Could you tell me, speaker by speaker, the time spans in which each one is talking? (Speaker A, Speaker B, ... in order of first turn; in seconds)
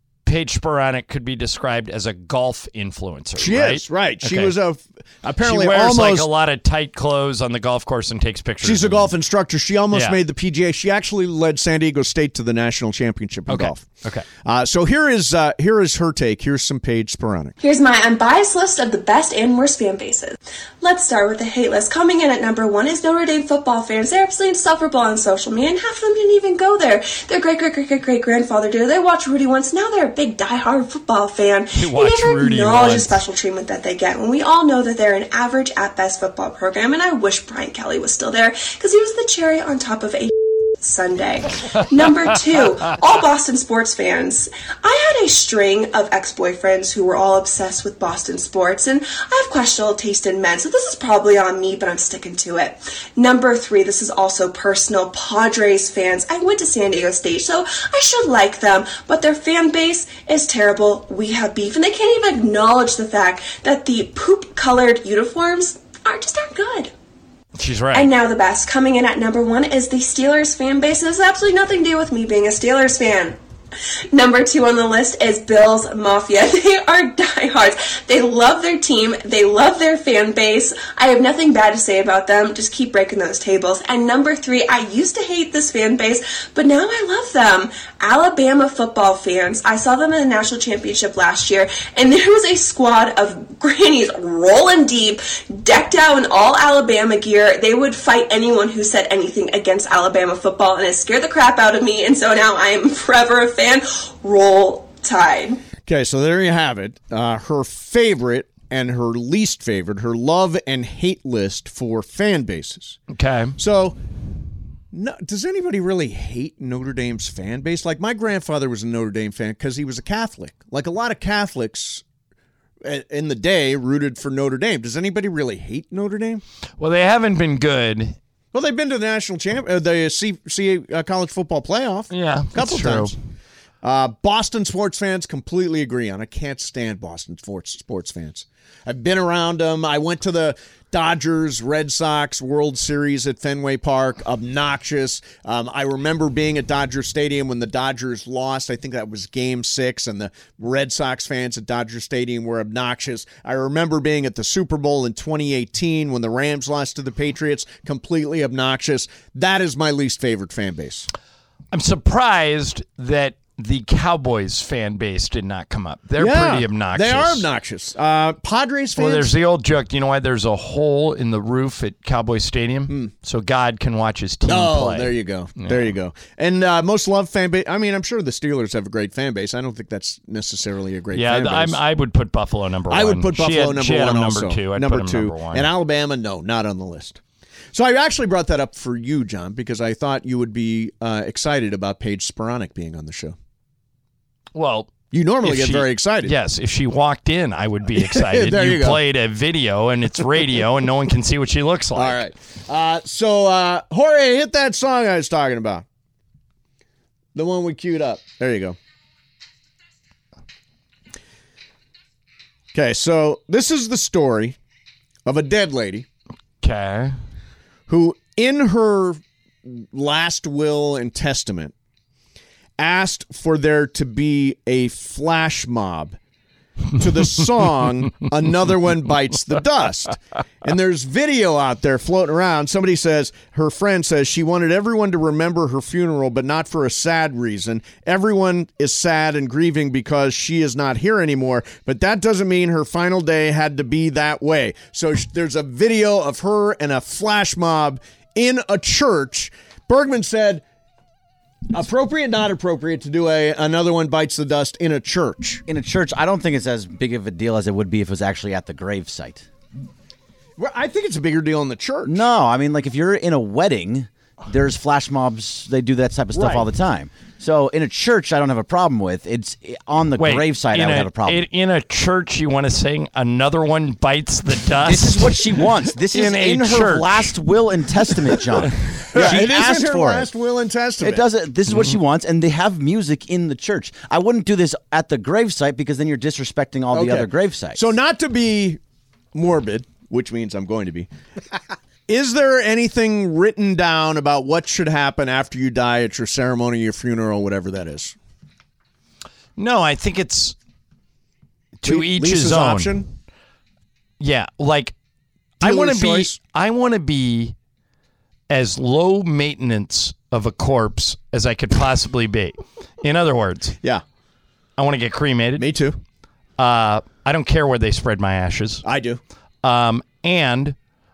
Speaker A: 0.2-4.6, 5.4-9.1, 9.9-10.2, 13.5-14.3, 31.8-33.2, 67.6-68.1, 113.1-113.6, 126.8-128.2, 132.1-133.1, 161.7-167.5, 169.0-175.9, 181.1-185.7, 194.6-202.2, 216.6-217.2, 270.2-277.3, 281.7-282.0, 299.6-300.6, 301.8-303.0, 304.2-304.9, 305.6-307.6, 308.5-313.8, 314.8-315.7, 316.6-318.9, 319.6-320.8
Speaker B: 3.4-6.3, 8.6-13.9, 14.4-17.6, 105.9-113.0, 113.6-114.0, 114.9-122.0, 122.8-126.4, 128.5-133.2, 133.8-161.1, 166.2-169.3, 174.5-181.8, 182.9-187.2, 187.7-193.4, 195.1-196.3, 197.9-199.0, 201.9-205.8, 207.3-208.8, 212.7-214.6, 215.3-216.1, 217.9-221.7, 222.8-226.2, 227.0-250.6, 251.7-255.6, 260.6-262.2, 266.3-266.7, 279.1-281.3, 286.9-288.8, 289.3-291.1, 292.1-298.2, 301.8-303.1, 305.6-306.4, 315.6-316.0, 318.8-319.2
Speaker C: 17.6-66.9, 67.9-73.4, 74.1-105.6
Speaker D: 255.7-259.5, 262.1-271.4, 274.8-280.3, 281.0-287.9